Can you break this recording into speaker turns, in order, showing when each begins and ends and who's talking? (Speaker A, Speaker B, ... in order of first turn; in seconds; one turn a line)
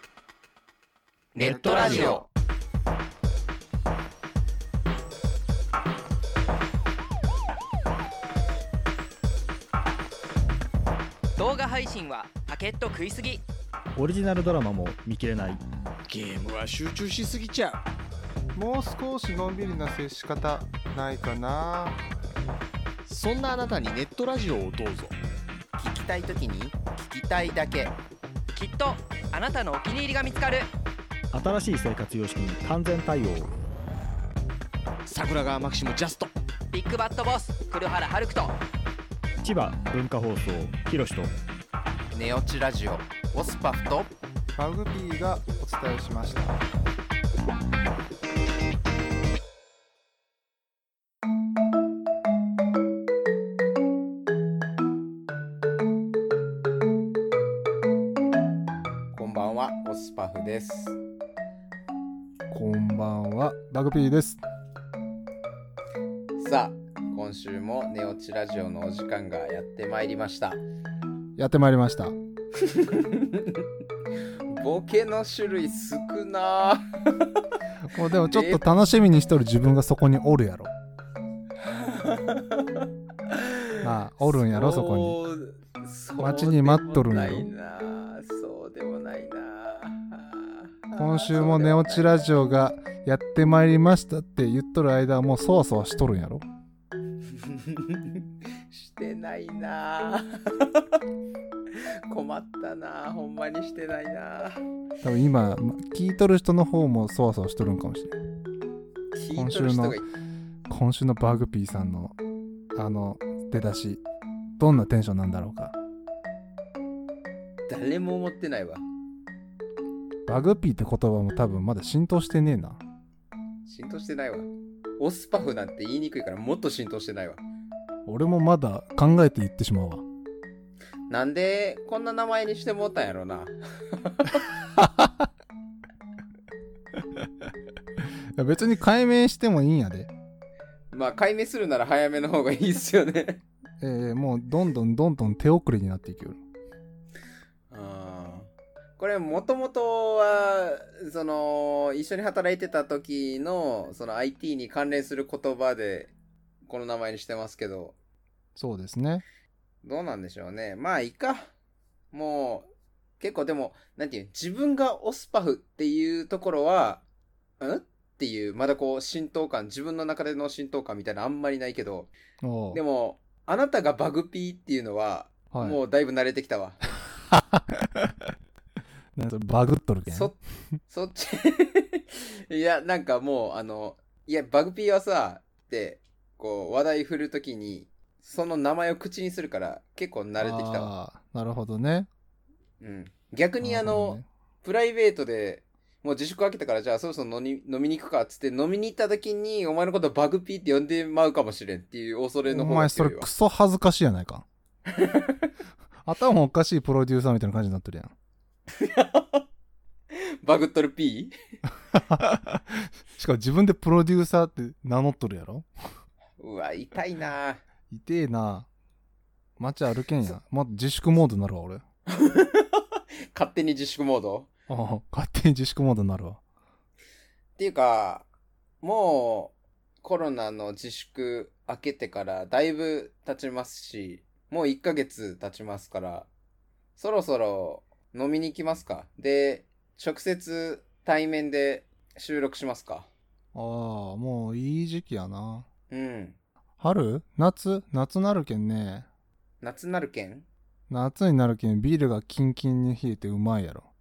Speaker A: 1.4-2.2
Speaker B: 1.4-2.2
Speaker C: 1.7-2.1
Speaker A: 11.4-13.4
Speaker C: 14.0-15.6
Speaker D: 16.1-17.8
Speaker E: 18.6-22.0
Speaker D: 23.1-25.1
Speaker A: 28.6-30.7
Speaker C: 31.3-33.5
Speaker D: 35.1-36.3
Speaker A: 36.7-38.5
Speaker C: 39.4-41.3
Speaker E: 44.6-46.6
Speaker B: 59.1-61.0
Speaker E: 62.5-64.4
Speaker B: 66.4-70.6
Speaker E: 71.4-72.2
Speaker B: 72.6-73.7
Speaker B: 74.5-77.3
Speaker E: 77.8-80.7
Speaker B: 78.2-78.6
Speaker B: 81.7-92.1
Speaker E: 83.8-85.2
Speaker E: 86.2-87.5
Speaker E: 91.0-96.4
Speaker B: 97.4-98.2
Speaker B: 98.7-100.8
Speaker B: 102.1-104.6
Speaker E: 105.0-108.2
Speaker B: 109.1-110.0
Speaker E: 109.3-110.0
Speaker E: 110.7-112.2
Speaker E: 112.8-114.0
Speaker E: 114.6-115.8
Speaker B: 117.7-118.8
Speaker E: 120.3-122.8
Speaker B: 123.7-124.5
Speaker B: 125.0-127.4
Speaker E: 128.1-130.0
Speaker B: 131.1-134.5
Speaker E: 134.8-135.3
Speaker E: 138.4-140.1
Speaker B: 140.9-143.4
Speaker E: 143.8-146.4
Speaker B: 147.7-156.1
Speaker B: 156.7-157.9
Speaker E: 158.6-159.2
Speaker B: 159.8-161.5
Speaker B: 162.1-162.7
Speaker B: 163.2-167.0
Speaker B: 167.6-172.1
Speaker E: 172.4-172.8
Speaker B: 172.7-176.8
Speaker E: 175.5-175.8
Speaker E: 177.3-178.2
Speaker E: 179.2-180.3
Speaker B: 180.1-180.4
Speaker B: 180.9-190.9
Speaker E: 190.4-192.1
Speaker B: 192.8-203.3
Speaker E: 193.6-194.3
Speaker E: 202.5-204.4
Speaker B: 204.9-205.4
Speaker E: 206.1-208.1
Speaker B: 208.8-209.4
Speaker B: 210.1-211.3
Speaker E: 211.9-215.7
Speaker B: 216.4-217.6
Speaker E: 217.9-218.7
Speaker E: 219.6-221.8
Speaker B: 222.2-222.8
Speaker B: 223.3-224.5
Speaker E: 224.7-226.4
Speaker B: 227.6-228.3
Speaker B: 228.8-236.3
Speaker B: 237.0-243.1
Speaker E: 243.5-245.7
Speaker B: 245.9-246.4
Speaker E: 246.8-249.1
Speaker B: 249.6-250.5
Speaker E: 250.9-253.9